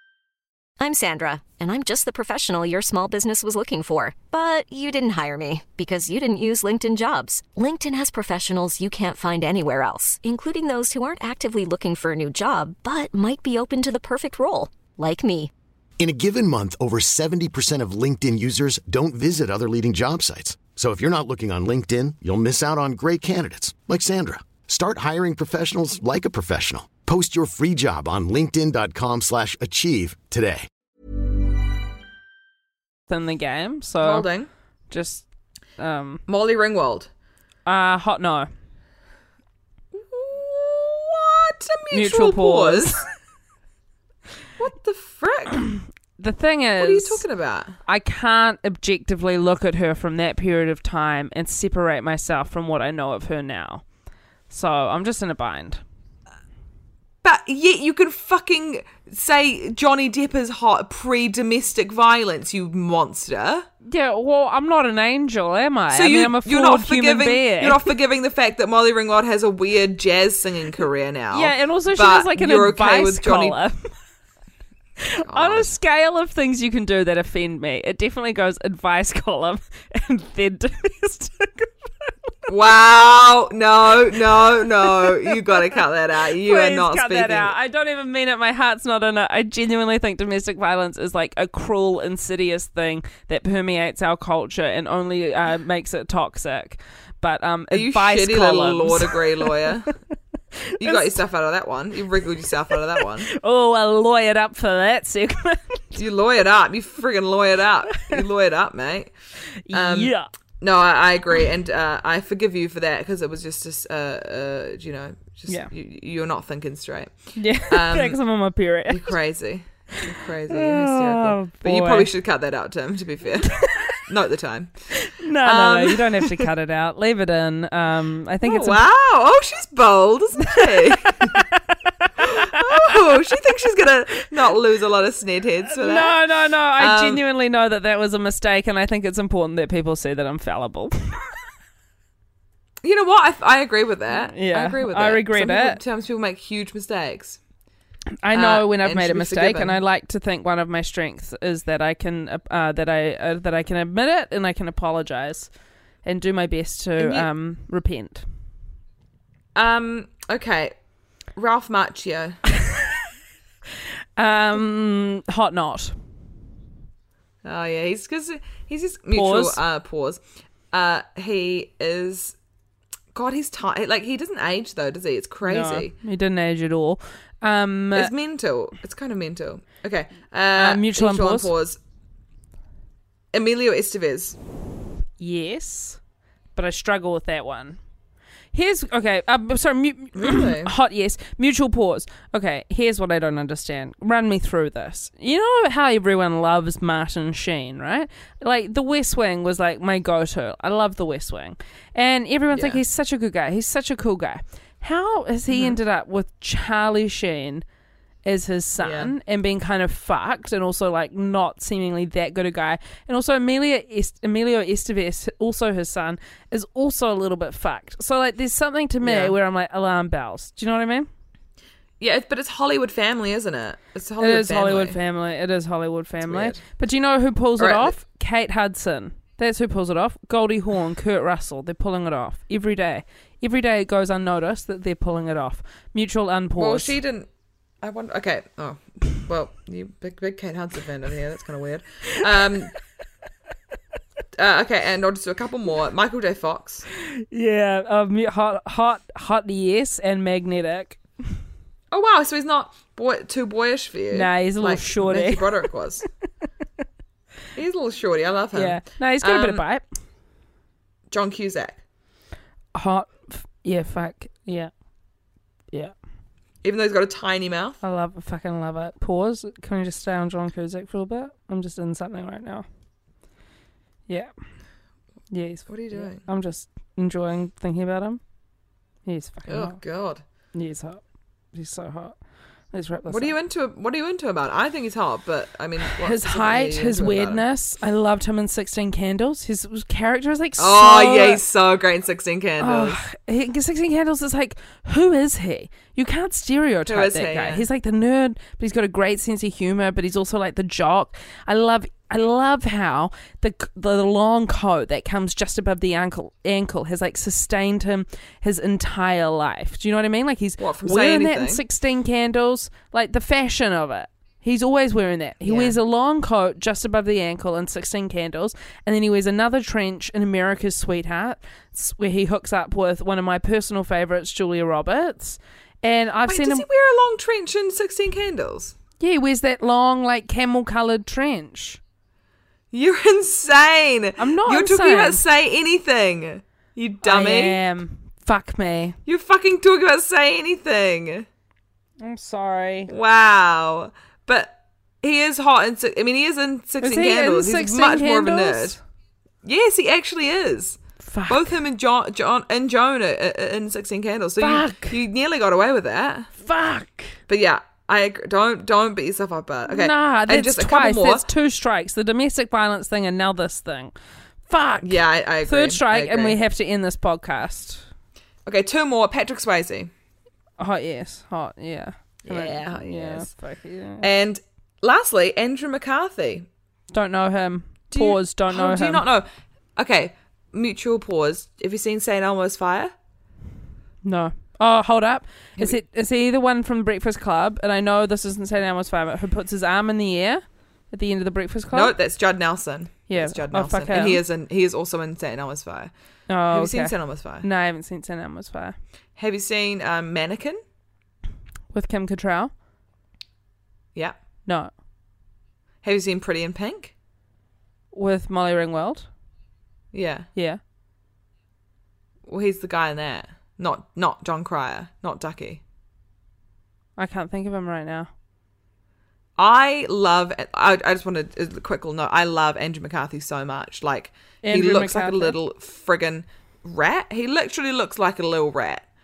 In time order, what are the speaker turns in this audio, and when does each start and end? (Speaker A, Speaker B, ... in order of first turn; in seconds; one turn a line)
Speaker A: 0.8-15.5
Speaker B: 16.0-30.7
Speaker C: 33.1-34.3
Speaker D: 34.0-34.5
Speaker C: 34.9-35.3
Speaker C: 35.8-36.2
Speaker D: 36.3-37.1
Speaker C: 37.7-38.5
Speaker D: 39.9-43.0
Speaker C: 41.9-43.1
Speaker D: 44.6-45.7
Speaker C: 46.2-47.2
Speaker D: 46.8-47.8
Speaker C: 47.9-53.8
Speaker C: 54.5-55.8
Speaker D: 57.2-63.7
Speaker C: 63.9-67.9
Speaker D: 65.9-73.6
Speaker C: 71.3-73.9
Speaker C: 75.0-82.1
Speaker D: 75.3-75.7
Speaker D: 82.5-87.5
Speaker C: 84.8-85.8
Speaker C: 86.4-99.8
Speaker D: 97.7-99.9
Speaker C: 100.6-101.2
Speaker D: 100.8-103.3
Speaker C: 103.3-106.0
Speaker D: 106.0-109.1
Speaker C: 109.6-110.3
Speaker D: 109.7-118.2
Speaker C: 117.4-119.1
Speaker D: 118.9-126.5
Speaker C: 120.5-122.1
Speaker C: 123.5-124.0
Speaker C: 124.9-128.8
Speaker D: 128.4-131.4
Speaker C: 130.5-133.2
Speaker D: 132.2-136.2
Speaker C: 135.7-141.3
Speaker D: 136.8-137.2
Speaker D: 142.8-147.4
Speaker C: 144.1-145.8
Speaker C: 148.2-155.5
Speaker D: 148.3-149.8
Speaker C: 156.0-158.2
Speaker D: 157.0-157.3
Speaker D: 159.6-160.7
Speaker D: 161.3-162.4
Speaker C: 162.6-162.9
Speaker C: 164.2-166.0
Speaker D: 167.4-170.2
Speaker C: 169.1-169.6
Speaker D: 170.7-172.4
Speaker D: 173.1-175.9
Speaker C: 175.4-178.1
Speaker D: 177.9-181.8
Speaker C: 180.6-181.5
Speaker D: 183.3-184.4
Speaker C: 185.2-186.0
Speaker C: 186.6-187.8
Speaker C: 188.5-207.7
Speaker D: 190.2-190.7
Speaker D: 202.5-202.8
Speaker D: 205.5-205.8
Speaker C: 208.2-221.1
Speaker D: 208.8-209.1
Speaker D: 219.0-219.3
Speaker D: 222.0-225.0
Speaker C: 224.2-237.0
Speaker D: 226.2-226.6
Speaker D: 227.6-228.0
Speaker D: 236.6-237.3
Speaker D: 237.8-242.8
Speaker D: 244.4-246.9
Speaker C: 247.1-251.0
Speaker D: 251.9-256.1
Speaker C: 254.1-255.7
Speaker D: 257.6-259.6
Speaker C: 258.5-259.9
Speaker D: 261.1-261.8
Speaker C: 262.7-264.7
Speaker D: 266.6-267.8
Speaker C: 267.8-272.7
Speaker C: 275.3-278.2
Speaker D: 275.7-276.2
Speaker C: 279.1-279.8
Speaker D: 279.5-280.2
Speaker C: 280.5-281.0
Speaker C: 281.5-282.2
Speaker C: 282.7-283.4
Speaker D: 283.1-287.4
Speaker C: 285.9-291.4
Speaker D: 290.6-293.0
Speaker C: 292.6-326.7
Speaker D: 296.9-297.7
Speaker D: 310.6-311.6
Speaker D: 315.4-315.8
Speaker D: 326.3-328.8
Speaker C: 329.0-331.8
Speaker D: 332.7-337.6
Speaker C: 334.2-335.2
Speaker C: 337.0-339.0
Speaker D: 339.1-341.3
Speaker C: 342.0-342.9
Speaker D: 342.9-348.8
Speaker C: 346.8-348.8
Speaker D: 349.4-356.3
Speaker C: 351.0-351.6
Speaker C: 354.4-355.0
Speaker C: 356.4-357.2
Speaker D: 357.3-361.2
Speaker C: 359.7-363.9
Speaker C: 364.5-367.9
Speaker D: 364.8-366.4
Speaker D: 368.5-369.9
Speaker C: 370.6-374.1
Speaker D: 372.2-373.3
Speaker D: 374.0-376.5
Speaker C: 376.9-379.1
Speaker D: 377.9-382.9
Speaker C: 384.0-391.9
Speaker D: 391.7-395.9
Speaker C: 393.1-394.2
Speaker C: 396.3-398.8
Speaker D: 396.5-397.5
Speaker D: 399.2-400.6
Speaker C: 401.7-402.5
Speaker D: 405.8-406.9
Speaker C: 407.9-409.1
Speaker D: 409.9-410.3
Speaker C: 410.4-410.6
Speaker D: 412.3-415.6
Speaker C: 417.0-418.1
Speaker D: 419.4-428.9
Speaker C: 424.4-425.4